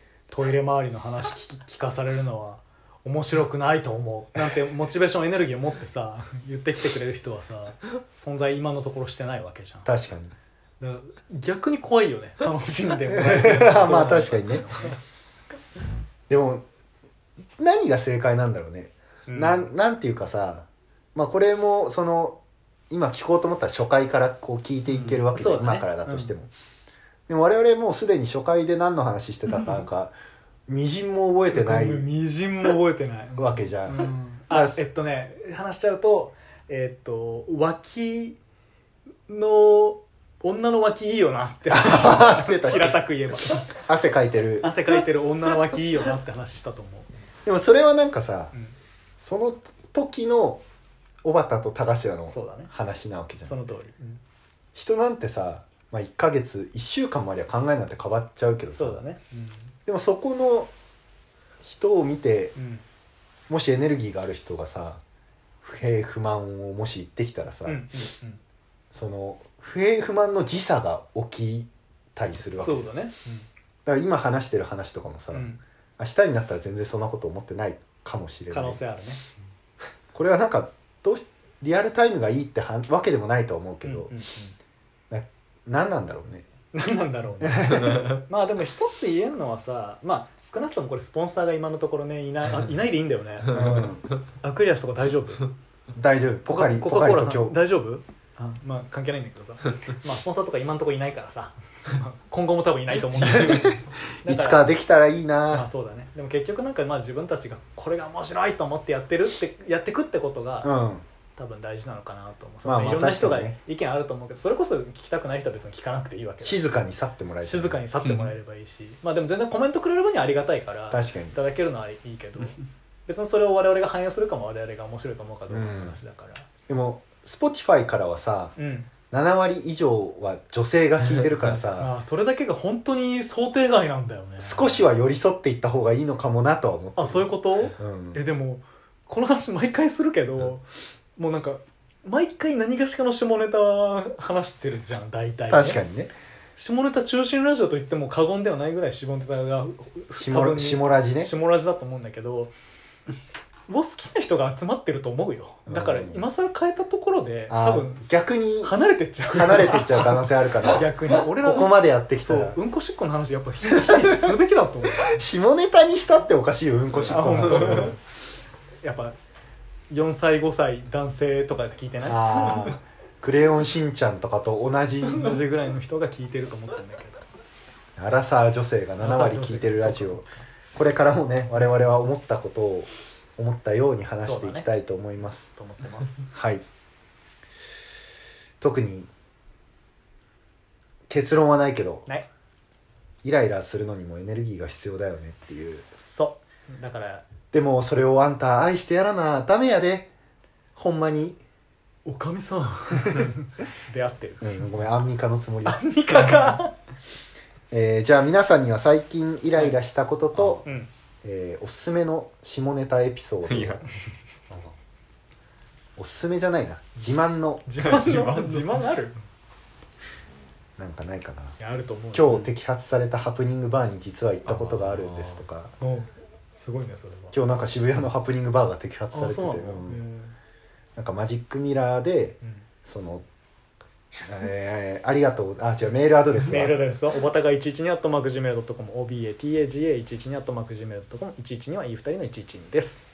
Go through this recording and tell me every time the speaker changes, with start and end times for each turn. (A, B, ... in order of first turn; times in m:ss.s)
0:00.3-0:09.9 A
0:09.8-0:10.3 B
0:10.8-0:15.0 A
0:13.1-0:14.7 B
0:16.3-0:16.6 B
0:17.6-0:22.4 B
0:19.3-0:19.7 A
0:22.9-0:26.5 B
0:24.9-0:26.3 A
0:27.3-0:30.1 B
0:30.7-0:32.1 B
0:31.5-0:38.4 A
0:33.4-0:34.8 B
0:39.3-0:43.8 A
0:41.7-0:43.0 B
0:43.6-0:44.9 B
0:44.6-0:47.1 A
0:47.4-0:48.5 B
0:49.2-0:50.6 B
0:51.2-0:53.5 B
0:52.3-0:52.7 A
0:53.4-0:54.2 A
0:54.7-0:59.0 B
0:58.8-0:59.7 A
0:59.8-1:00.7 B
1:01.6-1:02.5 B
1:02.6-1:02.8 A
1:03.5-1:05.0 B
1:05.6-1:07.8 B
1:07.6-1:08.4 A
1:08.9-1:12.9 B
1:12.6-1:13.5 A
1:13.8-1:18.8 B
1:15.3-1:15.6 A
1:18.5-1:19.2 A
1:20.1-1:24.1 B
1:23.8-1:24.6 A
1:25.1-1:26.4 B
1:26.7-1:33.9 A
1:27.4-1:28.1 B
1:33.5-1:34.0 B
1:34.4-1:35.5 A
1:35.9-1:37.6 B
1:36.5-1:44.6 A
1:43.2-1:45.6 B
1:45.5-1:50.7 A
1:50.6-1:51.0 B
1:51.4-1:56.7 A
1:52.6-1:53.6 B
1:56.4-1:57.8 B
1:57.4-2:06.5 A
2:00.9-2:01.4 B
2:05.5-2:06.0 B
2:06.7-2:08.5 B
2:08.6-2:08.9 A
2:09.1-2:11.9 B
2:11.4-2:14.9 A
2:14.4-2:18.2 B
2:17.0-2:20.6 A
2:21.2-2:25.8 A
2:25.5-2:26.1 B
2:26.6-2:32.5 A
2:30.1-2:31.3 B
2:33.7-2:38.0 A
2:35.7-2:36.2 B
2:37.5-2:38.8 B
2:38.6-2:45.2 A
2:39.3-2:42.6 B
2:43.7-2:44.3 B
2:44.9-2:48.0 B
2:47.1-2:48.0 A
2:48.8-2:49.2 A
2:49.9-2:52.6 A
2:52.0-2:55.4 B
2:55.0-2:57.2 A
2:58.0-3:05.5 B
2:59.0-3:00.4 A
3:04.2-3:04.7 A
3:05.5-3:06.3 A
3:06.3-3:06.6 B
3:08.6-3:09.1 B
3:11.1-3:12.0 B
3:13.2-3:15.9 B
3:16.1-3:17.2 A
3:17.5-3:20.1 B
3:20.7-3:21.4 B
3:22.0-3:24.7 A
3:24.4-3:26.6 B
3:25.6-3:26.7 A
3:27.7-3:30.6 B
3:30.3-3:30.9 A
3:31.2-3:33.8 B
3:36.0-3:38.5 B
3:37.6-3:39.2 A
3:40.8-3:41.6 B
3:41.6-3:42.5 A
3:42.1-3:45.7 B
3:44.4-3:47.4 A
3:47.3-3:50.0 B
3:49.1-3:50.3 A
3:51.0-3:53.2 B
3:54.2-3:56.8 B
3:56.3-4:03.0 A